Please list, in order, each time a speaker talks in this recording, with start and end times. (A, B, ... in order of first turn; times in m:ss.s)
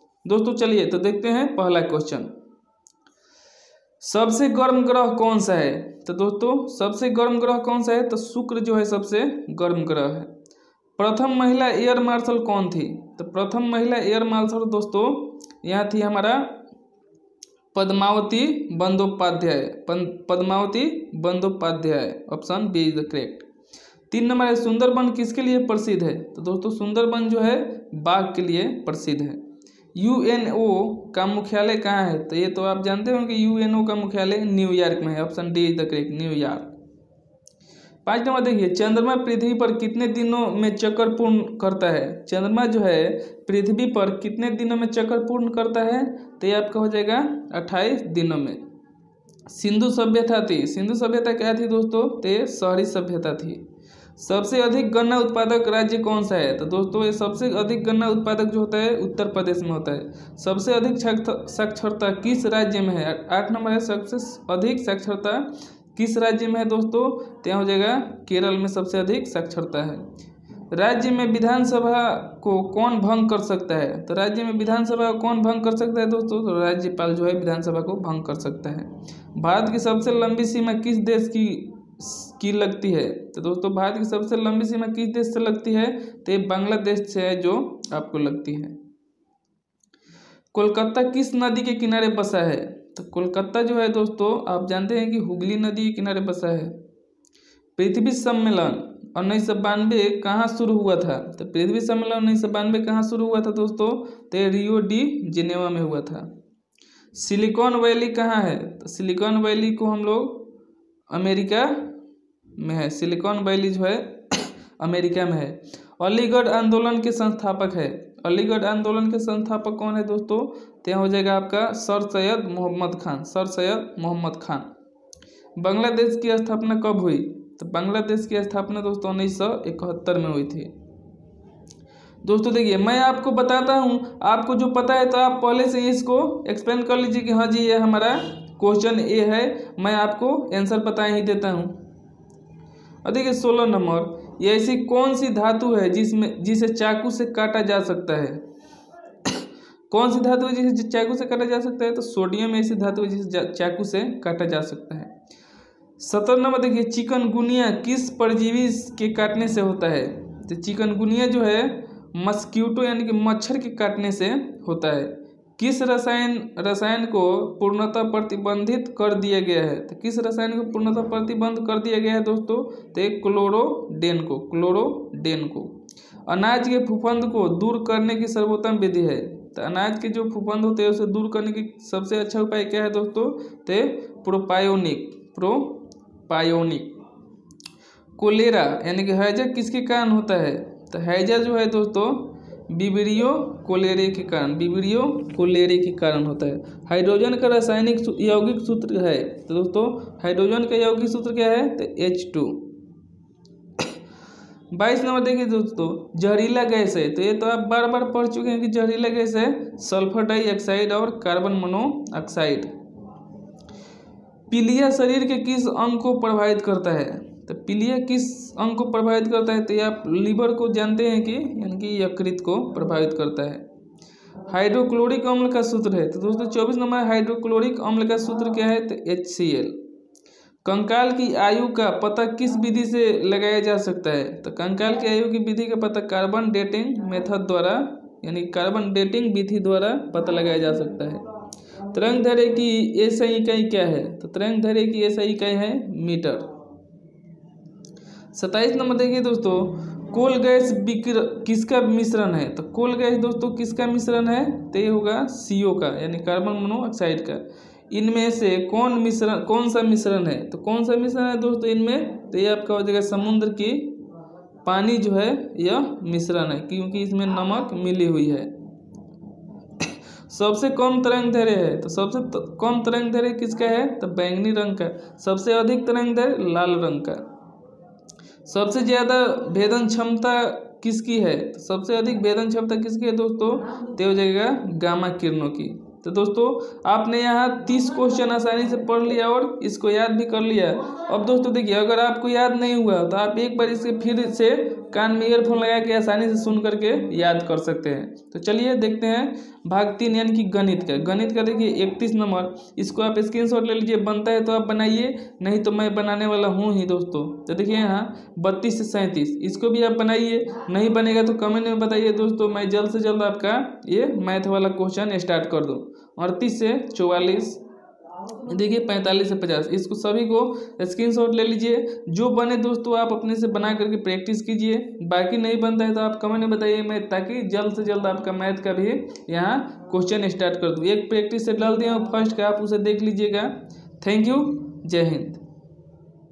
0:00.2-0:02.3 A
0:04.0-0:10.3 A
0:11.0-0:16.6 A
0:17.7-0:23.5 A
0:24.1-0:29.4 A
0:30.0-0:36.7 A
0:38.0-0:48.6 A
0:49.5-0:53.6 A
0:54.2-1:10.1 A
1:10.7-1:28.8 A
1:30.5-1:36.8 A
1:37.8-1:46.3 A
1:47.1-1:50.5 A
1:51.1-1:51.9 A
1:52.6-2:04.7 A
2:05.6-2:10.7 A
2:12.2-2:21.8 A
2:23.0-2:28.4 A
2:29.2-2:35.1 A
2:36.0-2:55.8 A
2:56.3-3:07.0 A
3:08.2-3:22.7 A
3:24.7-3:32.7 A
3:34.5-3:43.6 A
3:44.5-3:49.8 A
3:50.6-4:01.3 A
4:01.9-4:06.5 A
4:08.3-4:23.9 A
4:24.6-4:28.5 A
4:29.8-4:37.2 A
4:38.4-5:17.6 A
5:18.4-5:35.4 A